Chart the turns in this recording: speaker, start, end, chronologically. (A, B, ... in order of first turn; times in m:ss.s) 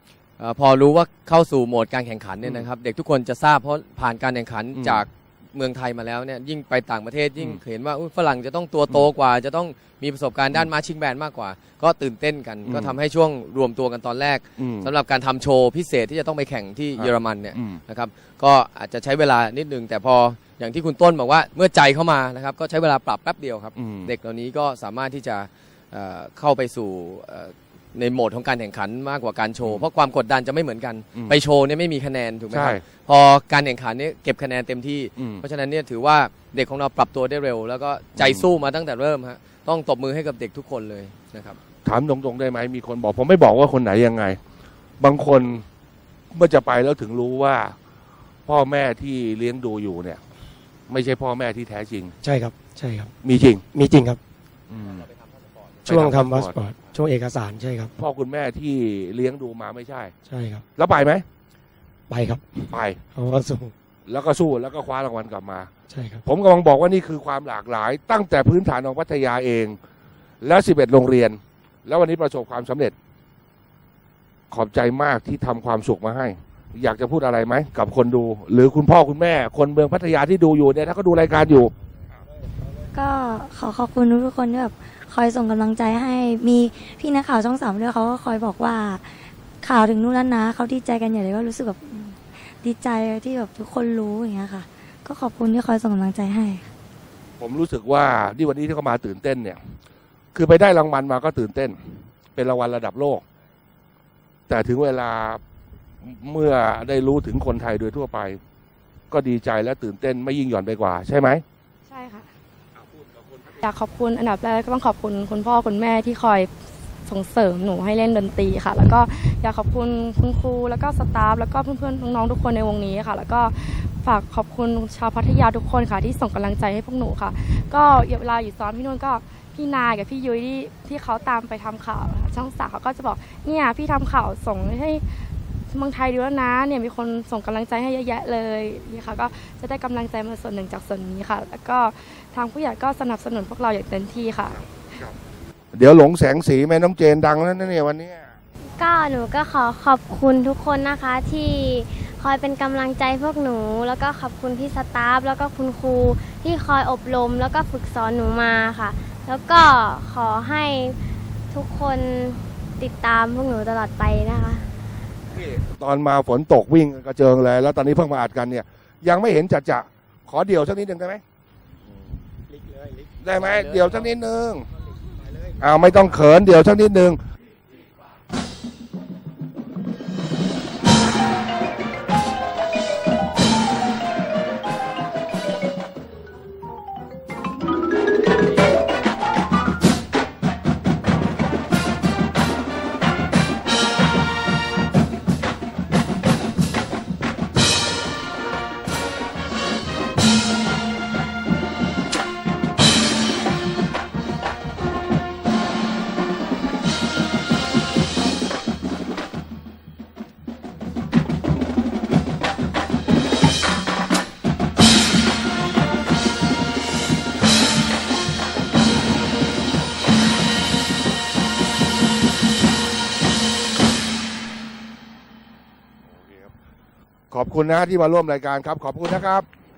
0:00.4-0:41.6 A
0:04.8-0:05.0 B
0:12.7-0:13.0 B
0:14.6-0:14.9 B
0:17.0-0:17.8 B
0:23.8-0:24.1 B
0:32.5-0:32.8 B
0:35.2-0:35.4 B
0:38.2-0:38.5 B
0:41.8-0:44.4 B
0:45.0-0:45.6 B
0:46.3-0:47.8 B
0:48.5-0:50.2 B
0:50.9-0:52.1 B
0:52.2-0:53.1 C
0:53.2-0:53.6 B
0:53.7-0:54.2 C
0:54.7-0:55.1 B
0:54.9-0:55.9 A
0:55.8-0:56.6 B
0:55.9-0:57.9 C
0:58.0-1:00.1 B
1:00.3-1:00.6 C
1:00.8-1:01.2 B
1:02.1-1:03.7 C
1:02.7-1:03.0 B
1:04.1-1:05.7 B
1:05.9-1:06.2 C
1:06.2-1:09.8 B
1:10.4-1:12.9 B
1:14.5-1:22.2 B
1:22.9-1:36.7 D
1:37.4-1:39.7 B
1:40.3-1:43.2 B
1:44.5-1:45.4 B
1:46.0-1:48.4 B
1:49.1-1:51.4 B
1:51.9-1:52.3 E
1:52.8-1:53.6 B
1:53.6-2:24.6 E
2:25.7-2:28.4 B
2:28.8-2:41.0 F
2:41.5-2:44.6 F
2:45.3-2:51.2 B
2:52.5-2:54.2 C
2:53.2-2:54.7 B
2:55.0-2:55.9 C
2:55.6-2:57.2 B
3:46.1-3:46.5 B
3:47.3-3:49.5 B